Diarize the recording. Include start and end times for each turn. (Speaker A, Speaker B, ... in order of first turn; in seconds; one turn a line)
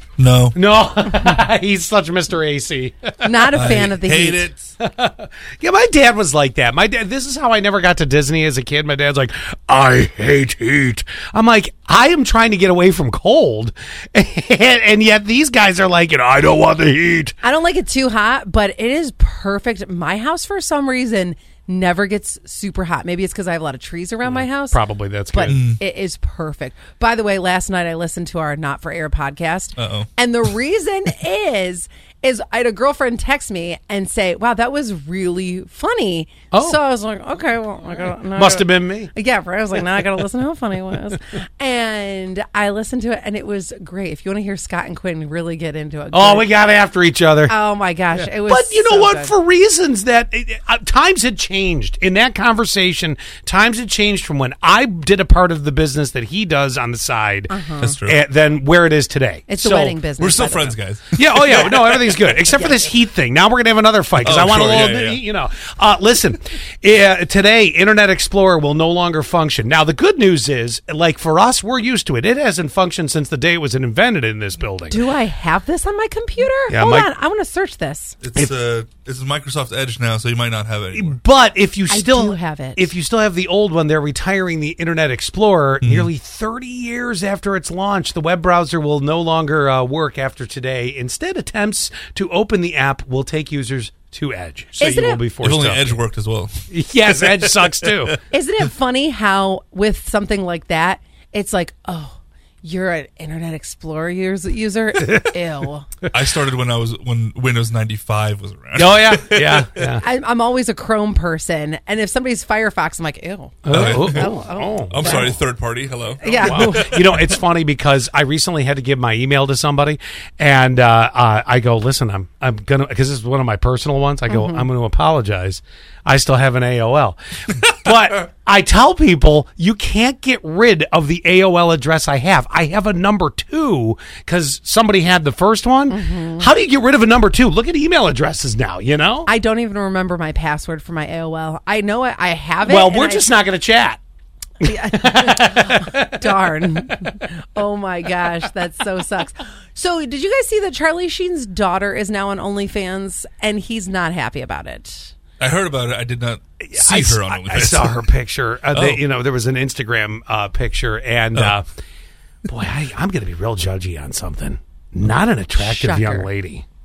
Speaker A: 0.2-0.6
Speaker B: 0.6-3.6
Speaker C: 3.2-4.5
Speaker A: 3.5-4.7
Speaker B: 4.8-17.4
Speaker C: 17.4-24.8
Speaker B: 24.2-25.7
Speaker C: 25.3-46.5
Speaker A: 25.5-25.8
Speaker A: 29.8-30.1
Speaker B: 36.5-36.8
Speaker B: 38.4-39.1
Speaker B: 46.1-47.5
Speaker C: 47.5-49.3
Speaker B: 48.3-57.5
Speaker C: 57.5-58.0
Speaker A: 57.8-58.2
Speaker B: 58.0-60.0
Speaker C: 59.5-60.8
Speaker A: 60.2-62.4
Speaker B: 61.2-75.0
Speaker A: 64.2-65.2
Speaker C: 74.9-78.2
Speaker B: 76.7-77.1
Speaker A: 78.2-81.2
Speaker B: 80.9-96.0
Speaker C: 81.9-82.9
Speaker A: 85.8-86.1
Speaker C: 94.8-95.2
Speaker A: 95.4-96.5
Speaker B: 96.7-98.2
Speaker A: 97.2-98.1
Speaker C: 98.3-105.9
Speaker B: 105.0-105.3
Speaker A: 106.1-109.9
Speaker B: 108.8-110.0
Speaker C: 110.0-115.4
Speaker B: 113.7-115.3
Speaker A: 113.7-114.4
Speaker A: 114.9-117.3
Speaker C: 116.2-117.0
Speaker B: 116.3-139.3
Speaker C: 124.3-124.7
Speaker C: 135.9-136.5
Speaker C: 139.3-143.4
Speaker B: 142.7-144.0
Speaker C: 144.6-155.1
Speaker B: 144.6-146.5
Speaker A: 155.4-158.1
Speaker B: 156.6-161.7
Speaker A: 158.7-159.0
Speaker B: 162.5-166.7
Speaker C: 165.3-166.3